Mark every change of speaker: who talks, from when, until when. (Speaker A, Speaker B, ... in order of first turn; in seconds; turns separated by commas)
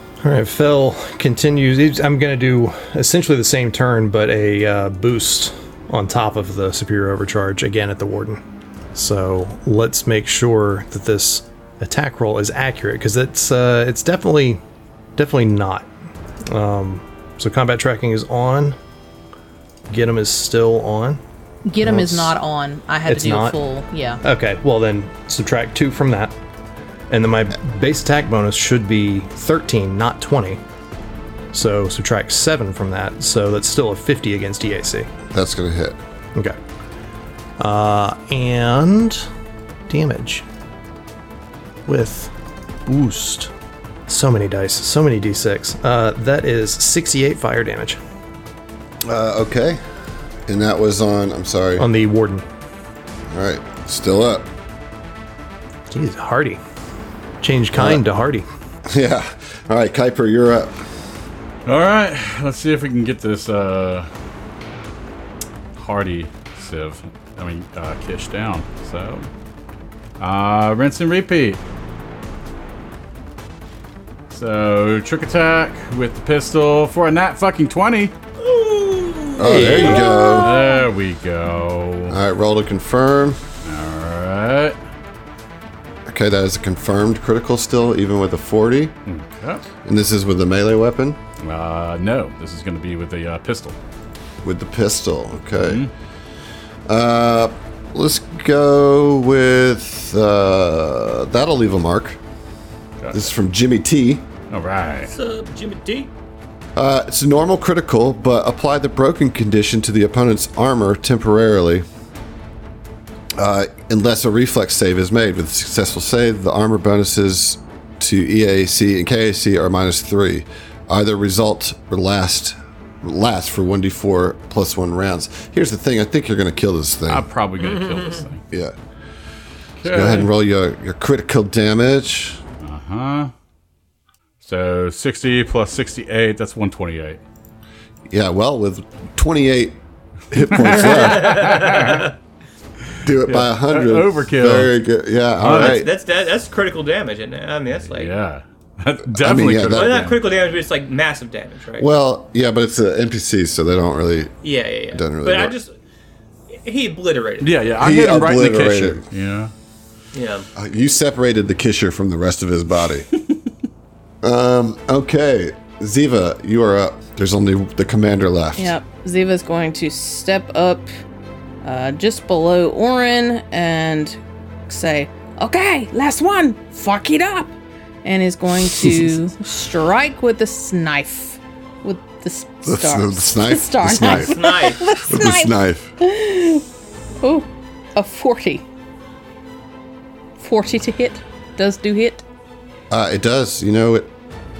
Speaker A: 0.2-8.4, Speaker A: 8.9-14.6, Speaker A: 15.2-15.9, Speaker A: 16.5-18.8, Speaker A: 19.9-21.2, Speaker B: 21.6-24.2, Speaker A: 21.8-22.3, Speaker A: 23.1-23.6, Speaker A: 24.2-26.4, Speaker A: 27.1-30.6, Speaker A: 31.5-35.1, Speaker C: 35.3-36.0, Speaker A: 37.6-39.2, Speaker A: 39.9-40.4, Speaker A: 41.9-42.3, Speaker A: 42.9-43.5, Speaker A: 44.1-48.0, Speaker C: 49.0-49.8, Speaker C: 50.5-51.9, Speaker A: 51.8-52.4, Speaker C: 53.3-54.5, Speaker A: 55.9-56.6, Speaker A: 57.4-58.5, Speaker C: 57.7-58.0, Speaker C: 58.9-60.8, Speaker D: 61.6-64.1, Speaker D: 65.8-69.3, Speaker D: 70.2-71.6, Speaker D: 74.3-78.1, Speaker E: 78.4-79.8, Speaker C: 79.4-80.5, Speaker A: 79.4-80.1, Speaker B: 79.8-80.6, Speaker D: 80.3-82.2, Speaker C: 82.1-83.4, Speaker D: 83.6-84.8, Speaker C: 86.1-88.9, Speaker D: 89.1-89.6, Speaker C: 89.8-91.2, Speaker D: 91.4-93.8, Speaker C: 94.4-95.8, Speaker D: 95.6-95.9, Speaker C: 96.9-102.2, Speaker D: 103.0-103.3, Speaker C: 103.1-104.3, Speaker D: 104.5-105.1, Speaker E: 105.1-106.1, Speaker C: 106.8-111.8, Speaker C: 113.4-127.3, Speaker D: 127.1-128.4, Speaker E: 127.6-128.2, Speaker D: 129.8-130.3, Speaker C: 129.8-132.4, Speaker D: 132.6-133.3, Speaker D: 134.4-137.2, Speaker C: 138.1-141.6, Speaker D: 140.5-142.1, Speaker E: 140.8-142.1, Speaker C: 143.0-145.9, Speaker D: 143.2-144.7, Speaker D: 145.4-145.8, Speaker E: 145.4-148.1, Speaker D: 147.8-150.2, Speaker C: 149.1-150.1, Speaker E: 149.5-151.9, Speaker C: 151.8-154.3, Speaker E: 154.4-155.7, Speaker C: 154.9-155.6, Speaker E: 156.5-157.7, Speaker D: 157.4-159.5, Speaker C: 157.8-159.1, Speaker E: 160.1-160.5, Speaker C: 160.6-163.1, Speaker C: 164.2-168.8, Speaker B: 168.6-170.9, Speaker B: 171.6-186.6, Speaker C: 182.6-184.4, Speaker E: 184.0-185.0, Speaker C: 184.9-185.9, Speaker B: 187.2-188.6, Speaker B: 190.4-192.2, Speaker C: 192.9-194.1